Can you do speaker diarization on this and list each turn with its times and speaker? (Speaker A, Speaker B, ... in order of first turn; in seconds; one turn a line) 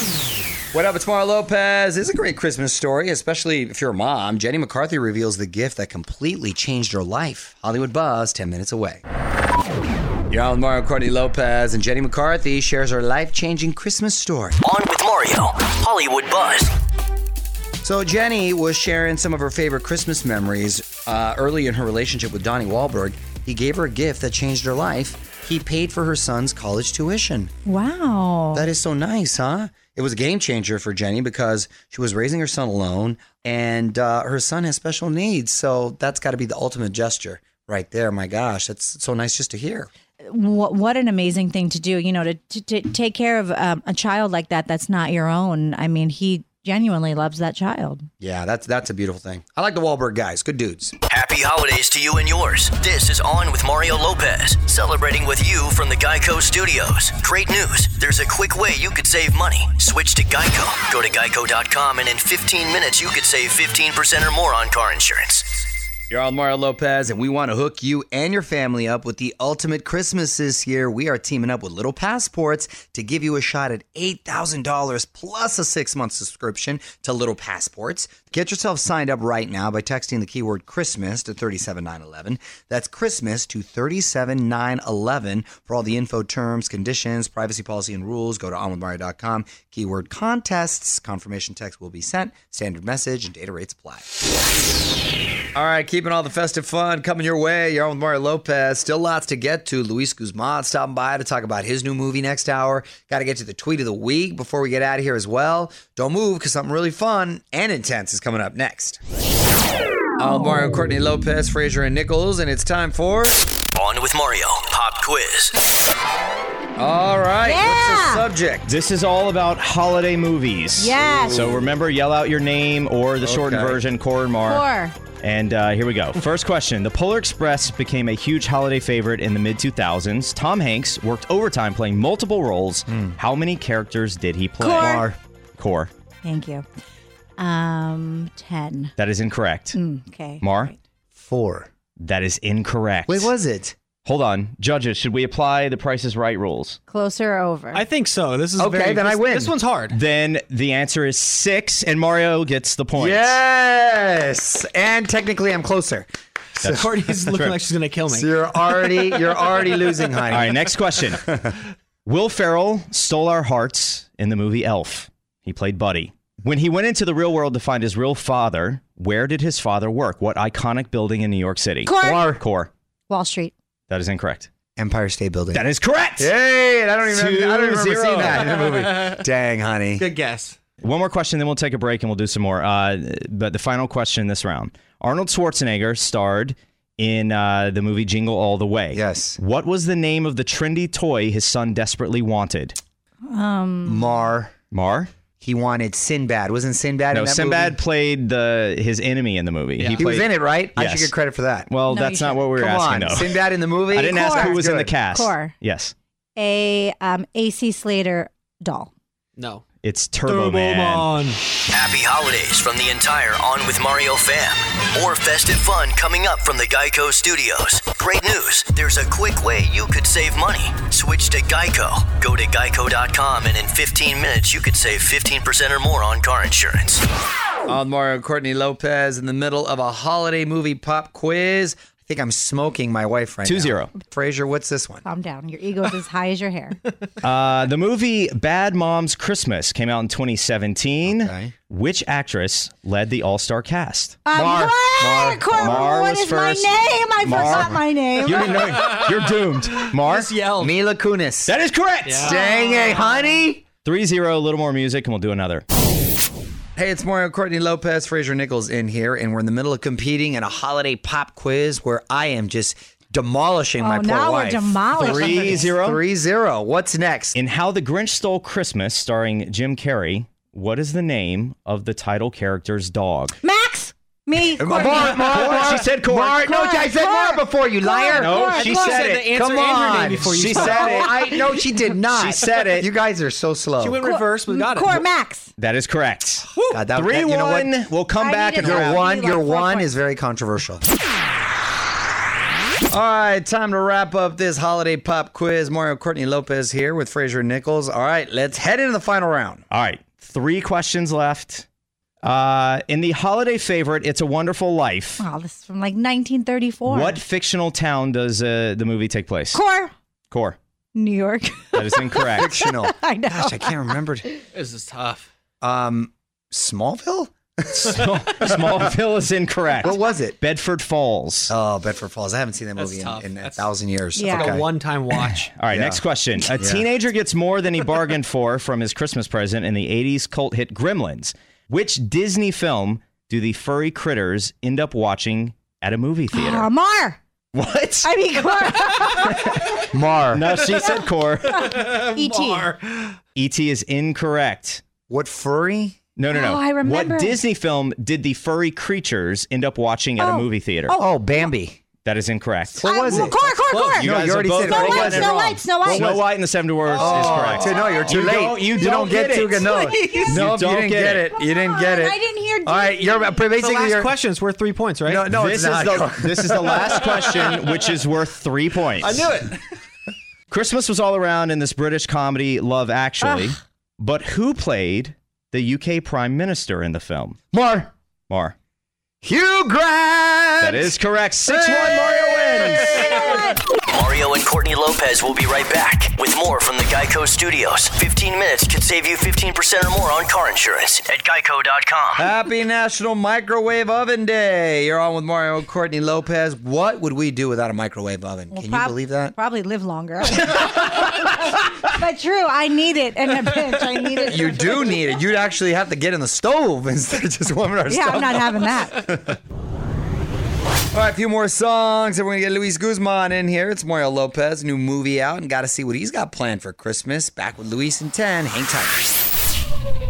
Speaker A: 0.7-9.0
Speaker A: 10.3-14.6
Speaker B: 14.6-16.7
Speaker A: 17.8-27.5
Speaker C: 27.6-28.7
Speaker A: 28.5-39.9
Speaker C: 40.2-48.1
Speaker A: 48.2-50.9
Speaker B: 51.1-65.6
Speaker A: 66.1-94.1
Speaker A: 95.5-109.0
Speaker A: 110.2-113.4
Speaker B: 113.7-115.6
Speaker A: 116.8-118.7
Speaker C: 117.4-118.2
Speaker D: 118.7-124.7
Speaker C: 120.8-121.7
Speaker A: 123.2-123.8
Speaker C: 124.4-124.9
Speaker D: 125.2-135.9
Speaker A: 132.9-133.2
Speaker C: 134.6-135.1
Speaker C: 136.2-136.6
Speaker C: 137.4-138.9
Speaker D: 139.0-139.8
Speaker C: 139.7-140.7
Speaker D: 140.4-140.7
Speaker A: 141.2-141.7
Speaker D: 142.0-143.3
Speaker A: 143.1-143.8
Speaker D: 144.0-146.8
Speaker C: 146.9-147.8
Speaker E: 147.7-150.0
Speaker A: 148.6-149.6
Speaker D: 149.9-153.4
Speaker A: 153.0-156.1
Speaker D: 156.6-157.6
Speaker E: 156.8-158.3
Speaker A: 158.1-160.6
Speaker D: 160.3-161.2
Speaker A: 161.2-161.5
Speaker D: 162.1-172.7
Speaker C: 171.8-172.3
Speaker C: 173.1-173.5
Speaker D: 173.9-174.5
Speaker A: 174.8-175.6
Speaker D: 175.5-176.3
Speaker A: 176.2-180.1
Speaker D: 177.1-178.5
Speaker E: 180.0-180.5
Speaker D: 180.8-192.8
Speaker A: 188.9-189.4
Speaker C: 193.2-194.3
Speaker A: 193.8-194.5
Speaker D: 194.7-195.1
Speaker A: 195.4-197.8
Speaker D: 197.1-201.1
Speaker A: 199.9-201.7
Speaker D: 201.7-203.3
Speaker C: 201.9-202.5
Speaker A: 202.5-204.9
Speaker D: 203.9-205.9
Speaker C: 203.9-205.5
Speaker C: 206.3-208.9
Speaker E: 209.4-209.6
Speaker D: 209.8-211.2
Speaker E: 210.2-211.4
Speaker B: 211.7-227.0
Speaker A: 227.7-235.0
Speaker D: 233.4-233.9
Speaker C: 235.0-236.8
Speaker D: 237.2-244.2
Speaker A: 241.1-241.5
Speaker C: 244.2-248.5
Speaker A: 244.3-245.9
Speaker D: 245.5-250.3
Speaker E: 250.0-250.7
Speaker A: 250.6-251.5
Speaker D: 251.5-252.4
Speaker E: 252.0-252.4
Speaker A: 252.2-253.6
Speaker C: 252.6-253.1
Speaker D: 253.8-255.6
Speaker A: 256.8-267.4
Speaker C: 263.8-265.8
Speaker D: 265.0-266.0
Speaker D: 267.3-273.3
Speaker C: 273.4-275.5
Speaker A: 274.6-284.1
Speaker D: 274.8-276.4
Speaker C: 276.1-278.8
Speaker D: 278.1-279.2
Speaker E: 278.1-281.1
Speaker D: 279.9-281.1
Speaker C: 280.5-282.0
Speaker D: 282.1-282.9
Speaker E: 283.8-285.0
Speaker C: 284.0-285.5
Speaker D: 285.6-289.0
Speaker A: 286.7-287.7
Speaker C: 288.2-289.9
Speaker A: 288.6-290.8
Speaker A: 292.9-299.6
Speaker D: 299.7-301.7
Speaker D: 302.2-305.2
Speaker C: 305.2-307.2
Speaker D: 306.9-309.6
Speaker C: 309.5-309.9
Speaker D: 310.3-310.6
Speaker C: 310.9-314.0
Speaker D: 311.7-312.5
Speaker A: 312.4-314.3
Speaker E: 314.5-315.2
Speaker A: 315.6-318.7
Speaker D: 317.7-321.5
Speaker A: 319.8-320.4
Speaker A: 321.5-324.7
Speaker E: 322.8-323.7
Speaker C: 324.1-324.6
Speaker E: 324.3-325.5
Speaker D: 325.2-336.7
Speaker A: 325.7-326.0
Speaker A: 326.5-326.9
Speaker C: 336.3-337.2
Speaker D: 337.5-338.1
Speaker C: 338.0-339.7
Speaker A: 339.9-340.5
Speaker D: 340.3-341.9
Speaker C: 341.5-342.7
Speaker D: 343.3-344.8
Speaker A: 345.1-346.0
Speaker D: 346.1-351.0
Speaker C: 346.3-347.4
Speaker C: 350.2-351.5
Speaker A: 350.9-351.8
Speaker D: 351.9-352.9
Speaker A: 352.8-353.4
Speaker C: 352.8-356.2
Speaker D: 353.9-361.3
Speaker A: 354.0-356.2
Speaker A: 356.9-364.1
Speaker E: 359.9-360.3
Speaker C: 361.3-363.4
Speaker E: 363.5-365.3
Speaker A: 365.0-367.0
Speaker D: 365.2-369.3
Speaker E: 366.9-367.4
Speaker E: 369.0-369.5
Speaker D: 370.5-377.4
Speaker A: 377.5-377.9
Speaker D: 378.3-378.5
Speaker A: 379.2-380.9
Speaker D: 380.6-382.7
Speaker A: 381.4-383.5
Speaker C: 382.9-383.6
Speaker B: 383.9-392.2
Speaker A: 392.1-399.3
Speaker C: 398.5-404.7
Speaker A: 404.3-409.4
Speaker C: 407.9-409.1
Speaker A: 410.9-419.2